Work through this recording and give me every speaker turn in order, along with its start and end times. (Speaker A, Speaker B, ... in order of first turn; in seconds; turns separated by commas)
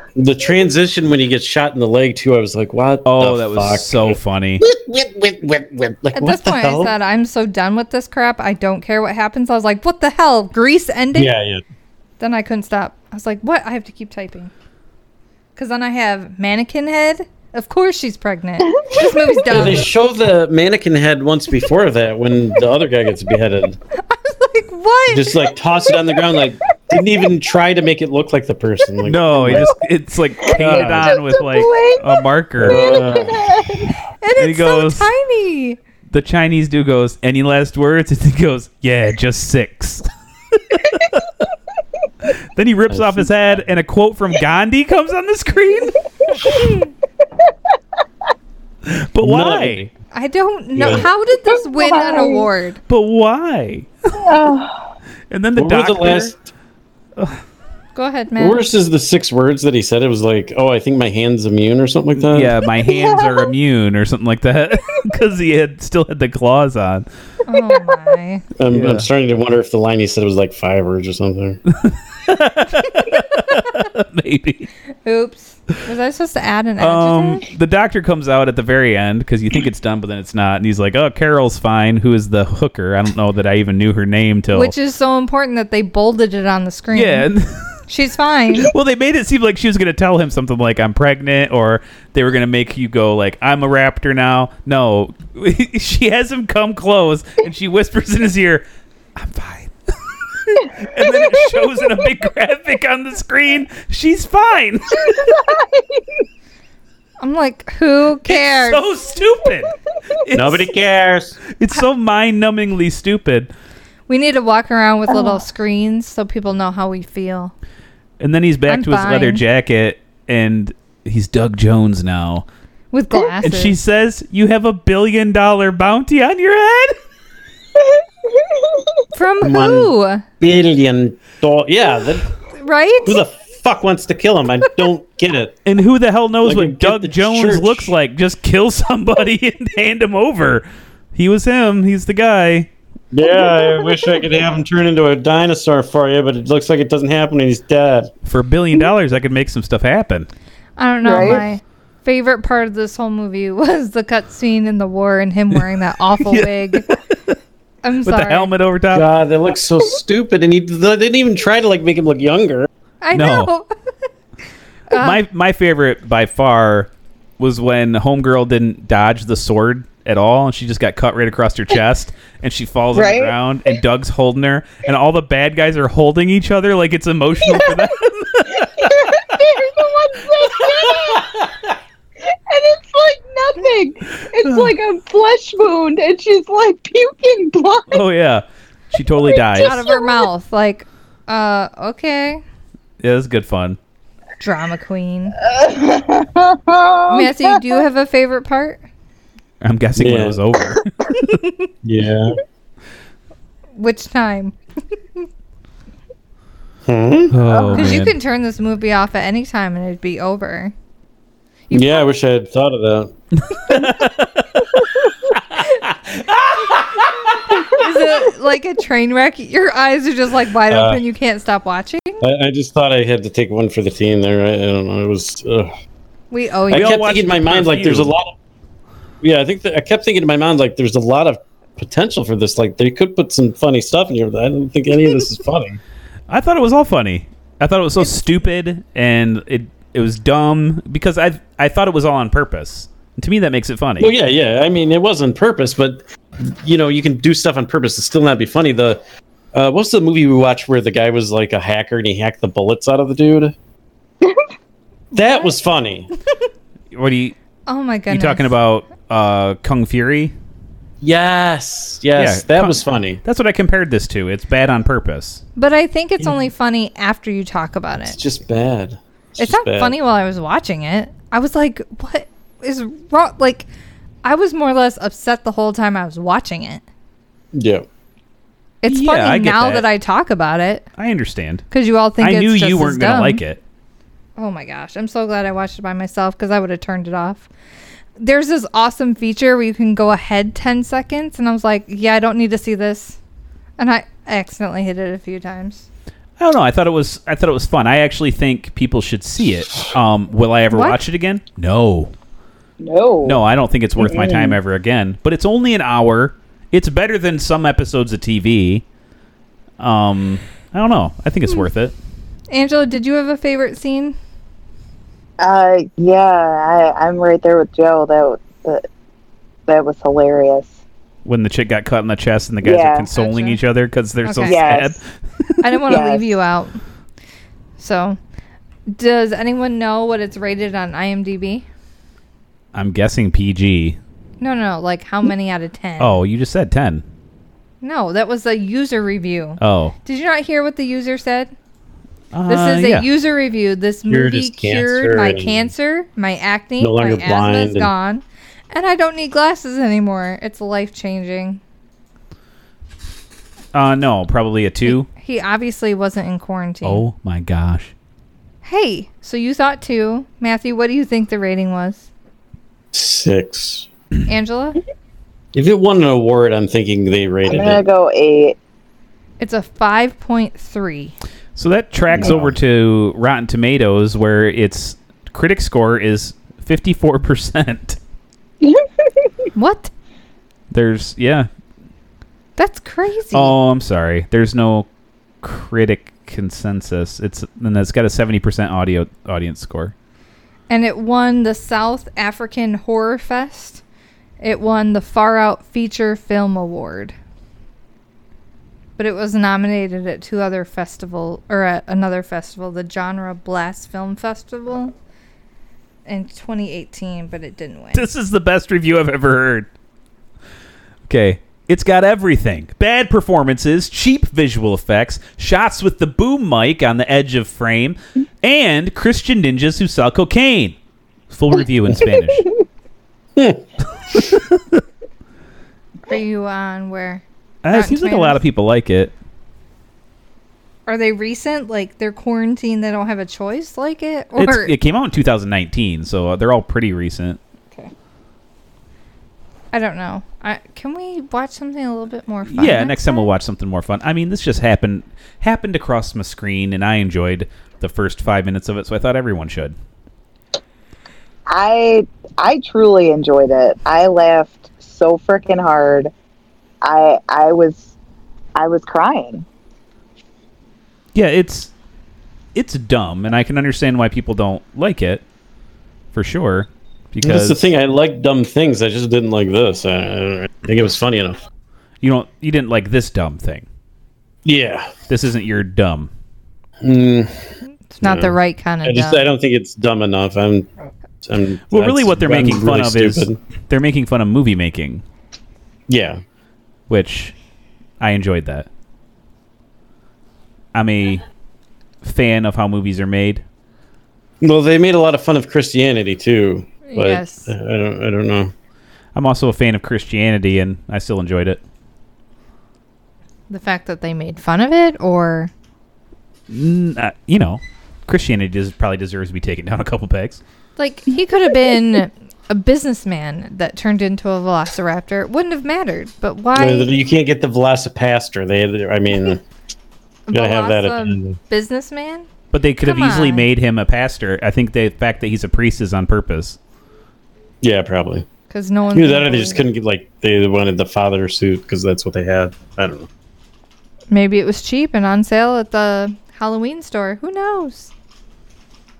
Speaker A: 0.1-6.9, Speaker B: 3.0-4.6, Speaker C: 6.1-11.3, Speaker A: 11.1-11.6, Speaker C: 12.2-14.5, Speaker C: 15.6-19.9, Speaker D: 18.7-19.6, Speaker A: 19.5-23.8, Speaker C: 24.1-25.5, Speaker A: 25.1-29.7, Speaker B: 29.0-33.0, Speaker D: 30.4-33.9, Speaker A: 30.6-31.2, Speaker A: 32.6-33.8, Speaker C: 34.2-35.8, Speaker B: 34.4-35.1, Speaker B: 36.1-41.4, Speaker B: 42.3-46.0, Speaker A: 42.9-43.3, Speaker C: 46.4-46.9, Speaker B: 48.8-49.9, Speaker A: 49.2-49.9, Speaker C: 50.1-52.8, Speaker A: 50.8-51.0, Speaker D: 51.4-52.5, Speaker B: 52.9-53.9, Speaker D: 54.1-54.9, Speaker B: 55.3-56.3, Speaker A: 55.5-56.4, Speaker C: 57.9-58.6, Speaker A: 58.4-62.5, Speaker B: 62.1-67.0, Speaker D: 62.8-63.5, Speaker C: 67.5-68.4, Speaker A: 68.6-71.6, Speaker B: 68.7-69.1, Speaker B: 71.7-74.7, Speaker C: 75.0-77.4, Speaker B: 76.8-84.7, Speaker C: 84.5-87.3, Speaker B: 86.9-87.8, Speaker C: 87.9-88.7, Speaker B: 88.6-98.6, Speaker B: 99.2-105.4, Speaker D: 104.9-106.2, Speaker C: 107.2-108.9, Speaker B: 108.2-110.7, Speaker A: 110.3-111.4, Speaker B: 111.5-113.5, Speaker C: 114.1-117.5, Speaker D: 115.1-115.4, Speaker B: 118.2-122.4, Speaker C: 118.7-119.4, Speaker C: 122.9-123.8, Speaker B: 123.4-127.0, Speaker D: 127.8-129.1, Speaker C: 129.1-130.2, Speaker A: 129.4-132.3, Speaker C: 132.6-133.2, Speaker A: 133.0-135.6, Speaker B: 135.7-142.7, Speaker A: 136.4-137.9, Speaker A: 143.1-148.1, Speaker D: 143.3-144.1, Speaker B: 148.2-150.3, Speaker C: 150.8-156.9, Speaker D: 151.0-151.5, Speaker B: 156.2-157.3, Speaker C: 157.8-158.5, Speaker B: 158.0-159.1, Speaker A: 158.9-162.7, Speaker C: 163.0-163.7, Speaker B: 163.1-163.5, Speaker C: 164.9-165.2, Speaker B: 164.9-179.3, Speaker D: 172.9-173.3, Speaker D: 178.6-181.5, Speaker D: 182.2-188.0, Speaker B: 184.4-184.7, Speaker B: 187.9-189.8, Speaker D: 189.3-190.3, Speaker C: 189.5-192.4, Speaker B: 193.0-193.8, Speaker C: 194.4-195.4, Speaker D: 195.4-197.8, Speaker C: 197.1-198.8, Speaker B: 199.6-201.4, Speaker A: 200.0-200.4, Speaker A: 201.8-202.4, Speaker C: 203.8-204.6, Speaker A: 206.8-207.3, Speaker B: 207.3-208.1, Speaker D: 207.4-207.9, Speaker C: 207.7-210.7, Speaker C: 211.7-212.1, Speaker A: 211.7-213.1, Speaker B: 213.3-217.3, Speaker C: 217.7-222.2, Speaker A: 220.7-221.0, Speaker A: 222.2-225.7, Speaker C: 226.3-227.1, Speaker B: 226.7-228.1, Speaker A: 226.7-228.3, Speaker A: 229.2-235.8, Speaker B: 236.3-244.1, Speaker A: 244.0-249.0, Speaker A: 249.5-253.5, Speaker C: 255.1-255.5, Speaker A: 255.1-256.1, Speaker B: 256.9-257.3, Speaker C: 257.7-258.5, Speaker B: 258.1-260.3, Speaker A: 261.0-263.2, Speaker B: 262.1-265.4, Speaker C: 265.6-268.2, Speaker A: 268.1-269.9, Speaker C: 269.4-273.6, Speaker C: 274.2-276.8, Speaker A: 277.5-277.9, Speaker C: 278.8-280.9, Speaker B: 278.9-279.9, Speaker B: 281.0-281.6, Speaker C: 281.7-283.4, Speaker B: 282.2-283.6, Speaker C: 284.4-287.5, Speaker C: 288.2-293.2, Speaker C: 293.8-295.9, Speaker B: 296.4-302.1, Speaker C: 300.7-301.0, Speaker D: 302.8-303.4, Speaker B: 303.2-308.8, Speaker D: 304.0-304.6, Speaker B: 309.8-311.9, Speaker C: 312.5-314.1, Speaker D: 315.4-318.8, Speaker D: 319.7-320.7, Speaker B: 321.2-325.0, Speaker D: 322.6-323.1, Speaker C: 323.1-323.6, Speaker C: 324.2-324.6, Speaker D: 324.4-325.0, Speaker C: 325.6-326.8, Speaker D: 325.9-326.4, Speaker C: 327.8-328.2, Speaker C: 328.9-331.6, Speaker B: 332.7-334.0, Speaker C: 334.4-336.2, Speaker B: 336.0-337.0, Speaker C: 337.8-341.5, Speaker B: 339.6-339.9, Speaker B: 342.3-343.1, Speaker C: 342.5-351.6, Speaker A: 344.1-345.7, Speaker A: 346.8-347.9, Speaker B: 353.7-355.1, Speaker C: 354.9-357.0, Speaker B: 356.8-357.9, Speaker C: 358.6-362.1, Speaker A: 362.9-363.9, Speaker C: 364.3-364.8, Speaker A: 365.5-367.8, Speaker D: 367.4-368.6, Speaker C: 369.4-371.1, Speaker B: 371.6-378.0, Speaker A: 372.1-372.5, Speaker D: 378.6-379.3, Speaker C: 379.5-379.9, Speaker B: 380.7-381.5, Speaker C: 382.6-383.5, Speaker B: 383.3-384.9, Speaker B: 385.4-389.9, Speaker C: 390.7-393.8, Speaker C: 394.4-397.1, Speaker C: 399.0-404.9, Speaker C: 406.1-408.0, Speaker B: 407.9-409.7, Speaker B: 411.1-420.8, Speaker B: 421.3-422.5, Speaker A: 423.4-423.6, Speaker B: 424.1-424.8, Speaker C: 426.1-428.4, Speaker B: 427.6-429.1, Speaker C: 430.9-434.7, Speaker B: 434.4-437.4, Speaker C: 439.7-443.3, Speaker B: 442.5-449.7, Speaker D: 451.5-456.1, Speaker D: 456.8-457.9, Speaker D: 458.6-459.4, Speaker B: 461.1-461.7, Speaker B: 462.5-465.2, Speaker B: 466.1-467.7, Speaker A: 467.2-471.4, Speaker B: 472.0-473.6, Speaker A: 474.4-474.9, Speaker B: 475.1-476.1, Speaker A: 476.8-480.7, Speaker C: 477.9-479.2, Speaker A: 481.2-483.4, Speaker B: 481.7-485.0, Speaker A: 485.9-486.2, Speaker B: 486.9-487.3, Speaker B: 488.0-488.7, Speaker B: 490.7-491.2, Speaker B: 492.0-493.4, Speaker A: 494.4-498.5, Speaker C: 496.8-497.5, Speaker B: 499.1-501.6, Speaker C: 503.5-505.5, Speaker B: 506.5-510.4, Speaker C: 510.8-516.9, Speaker A: 516.5-519.4, Speaker C: 520.3-522.3, Speaker A: 520.3-521.4, Speaker B: 522.5-526.6, Speaker C: 522.8-523.5, Speaker A: 527.6-528.2, Speaker C: 528.5-529.6, Speaker A: 528.9-533.1, Speaker C: 534.1-537.9